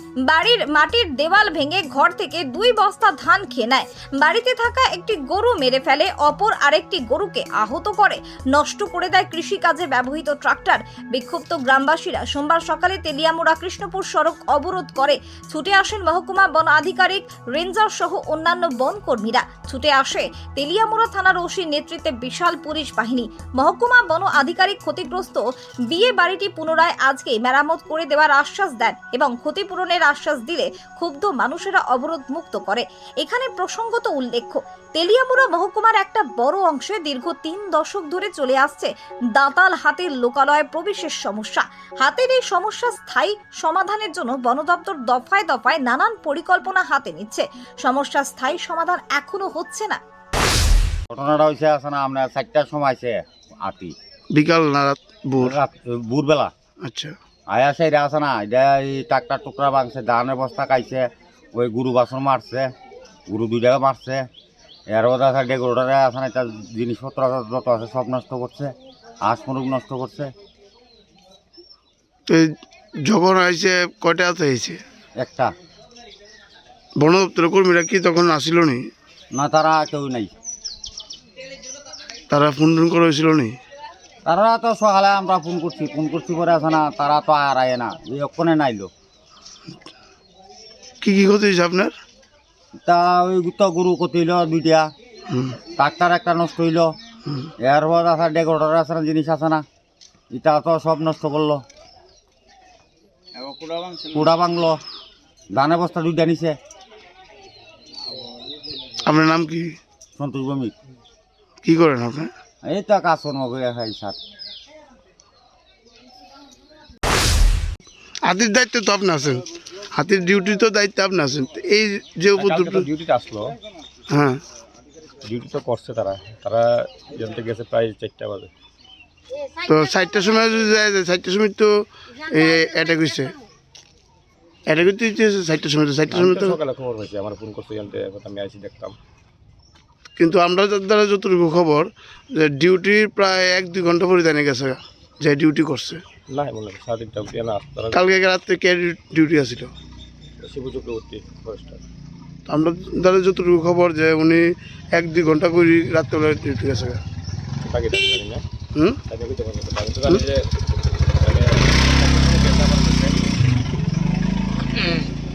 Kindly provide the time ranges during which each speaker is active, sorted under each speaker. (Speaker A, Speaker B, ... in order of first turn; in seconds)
Speaker A: 0.3-50.0
Speaker B: 51.1-53.9, 55.4-56.5, 57.5-62.7, 63.3-64.2, 64.9-68.7, 69.2-70.3, 75.2-75.5, 79.3-80.3, 84.2-88.9, 92.8-94.9, 95.7-96.9, 97.6-99.6, 100.3-101.6, 103.4-104.8, 105.5-106.5, 110.2-110.7, 112.6-114.2
Speaker C: 54.3-55.6, 56.8-57.1, 72.3-74.8, 77.0-78.9, 82.3-83.6, 91.0-91.9, 95.3-95.6, 109.0-109.8, 111.6-112.3, 118.2-122.9, 124.1-124.4, 129.6-133.4, 134.7-136.6, 140.2-146.0, 147.9-149.7, 152.5-157.0
Speaker D: 122.3-123.5, 125.2-128.5, 136.1-138.9, 146.3-148.0, 150.4-151.8, 157.6-158.4, 159.1-160.5, 161.2-163.2